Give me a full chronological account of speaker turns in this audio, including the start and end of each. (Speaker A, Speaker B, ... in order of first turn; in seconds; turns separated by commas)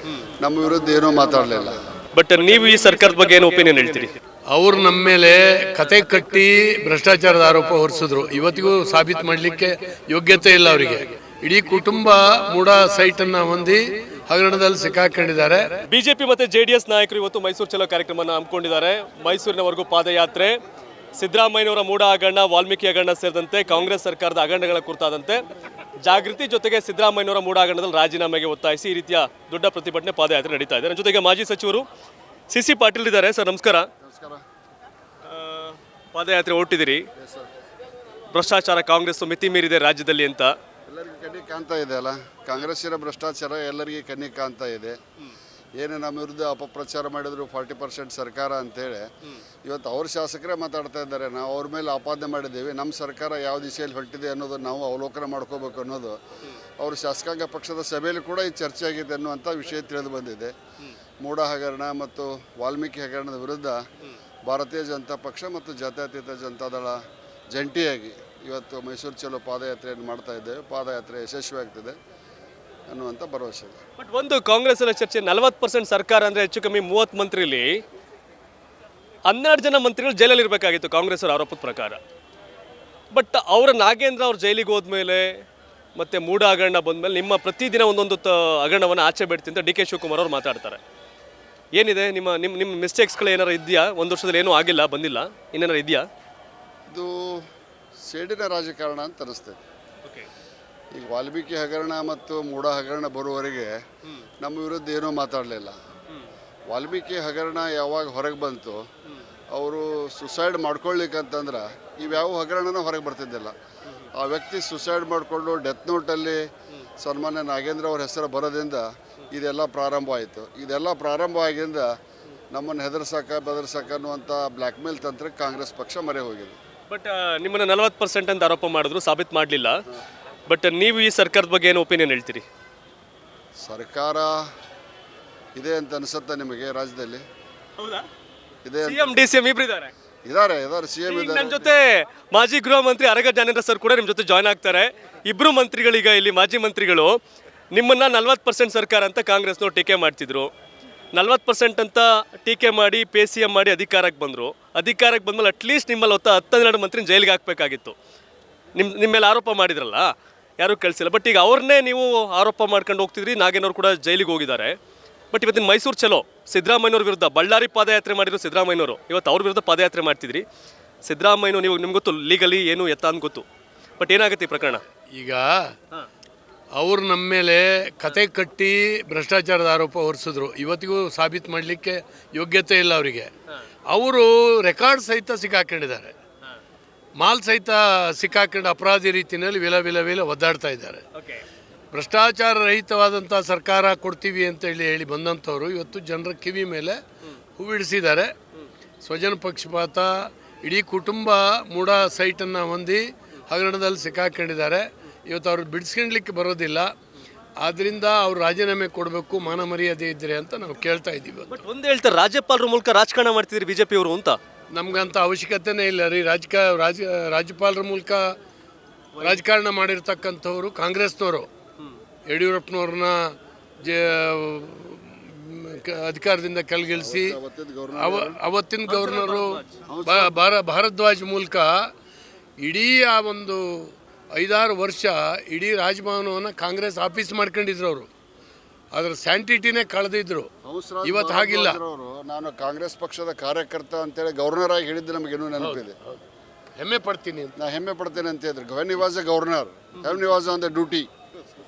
Speaker A: 0.2-1.9, Speaker B: 2.1-4.2, Speaker C: 4.5-15.8, Speaker B: 15.9-20.6, Speaker B: 21.1-25.4, Speaker B: 26.0-31.9, Speaker B: 32.5-33.9, Speaker A: 34.0-34.4, Speaker B: 35.3-37.0, Speaker A: 37.2-37.5, Speaker B: 38.3-40.5, Speaker A: 40.9-45.0, Speaker A: 45.8-49.1, Speaker A: 49.6-56.2, Speaker A: 56.8-60.5, Speaker A: 61.2-63.8, Speaker A: 64.5-67.0, Speaker A: 67.5-72.0, Speaker A: 72.9-73.8, Speaker B: 74.0-77.8, Speaker B: 79.3-82.0, Speaker B: 83.1-85.4, Speaker B: 86.0-90.8, Speaker B: 91.8-96.0, Speaker A: 96.9-97.4, Speaker A: 98.1-99.6, Speaker A: 100.9-103.8, Speaker A: 104.4-105.8, Speaker A: 106.7-108.8, Speaker A: 109.5-113.5, Speaker A: 114.1-116.4, Speaker A: 117.0-121.9, Speaker A: 122.5-126.6, Speaker B: 126.9-129.8, Speaker B: 130.5-132.4, Speaker A: 133.6-134.4, Speaker A: 135.6-137.2, Speaker B: 137.8-138.1, Speaker A: 138.6-139.1, Speaker B: 138.8-139.9, Speaker A: 140.3-141.7, Speaker B: 141.1-147.2, Speaker B: 147.7-150.5, Speaker B: 151.2-157.9, Speaker B: 158.8-164.8, Speaker B: 165.3-170.4, Speaker B: 171.1-173.4, Speaker B: 174.0-174.8, Speaker C: 175.1-175.8, Speaker C: 176.8-183.3, Speaker C: 183.9-186.2, Speaker C: 187.2-191.0, Speaker B: 191.2-191.4, Speaker C: 191.9-197.0, Speaker C: 197.6-198.3, Speaker C: 199.0-206.9, Speaker C: 207.6-211.6, Speaker B: 211.5-214.4, Speaker C: 214.7-218.3, Speaker C: 219.2-221.5, Speaker C: 222.3-227.4, Speaker A: 226.9-228.4, Speaker C: 227.9-231.9, Speaker B: 228.9-229.8, Speaker A: 229.9-230.4, Speaker C: 232.6-238.1, Speaker C: 238.9-240.5, Speaker A: 240.6-246.0, Speaker C: 241.0-241.8, Speaker C: 245.6-246.2, Speaker C: 246.8-247.5, Speaker A: 247.6-251.1